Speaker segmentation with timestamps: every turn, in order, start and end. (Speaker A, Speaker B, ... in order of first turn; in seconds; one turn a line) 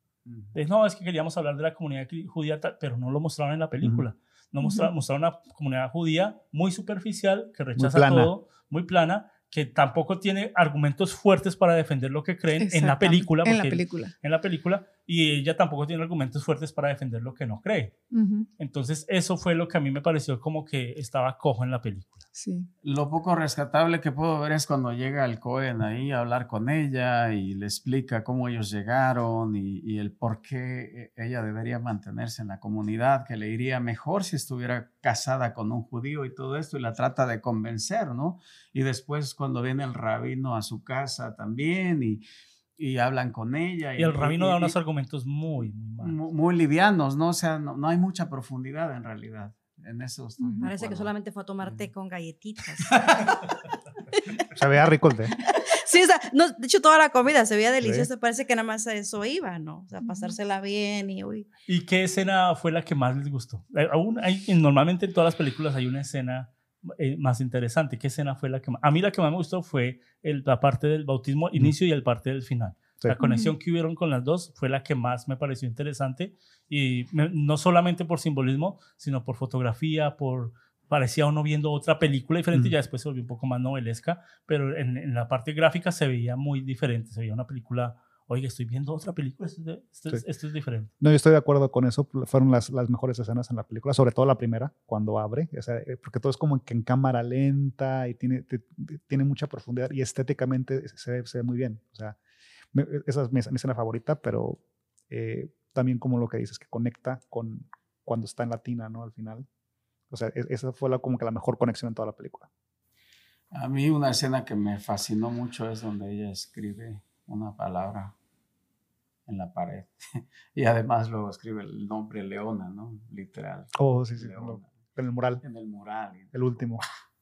Speaker A: 0.3-0.6
Speaker B: 0.5-17.9
Speaker C: 4.6-4.9
Speaker D: 7.8-8.3
Speaker C: 12.6-14.1
Speaker C: 18.1-18.5
Speaker B: 18.6-22.2
Speaker C: 22.4-22.7
Speaker A: 22.8-42.2
Speaker A: 42.8-44.7
Speaker B: 44.0-46.2
Speaker A: 46.0-51.9
Speaker C: 50.4-50.7
Speaker E: 50.6-53.1
Speaker D: 54.5-55.3
Speaker E: 55.5-61.5
Speaker D: 57.8-58.1
Speaker C: 60.0-60.3
Speaker B: 61.7-90.9
Speaker C: 73.2-73.5
Speaker D: 91.0-102.2
Speaker D: 102.7-109.5
Speaker D: 110.1-112.5
Speaker A: 113.5-118.2
Speaker A: 119.3-124.8
Speaker D: 123.8-125.4
Speaker A: 125.4-126.8
Speaker D: 126.3-126.8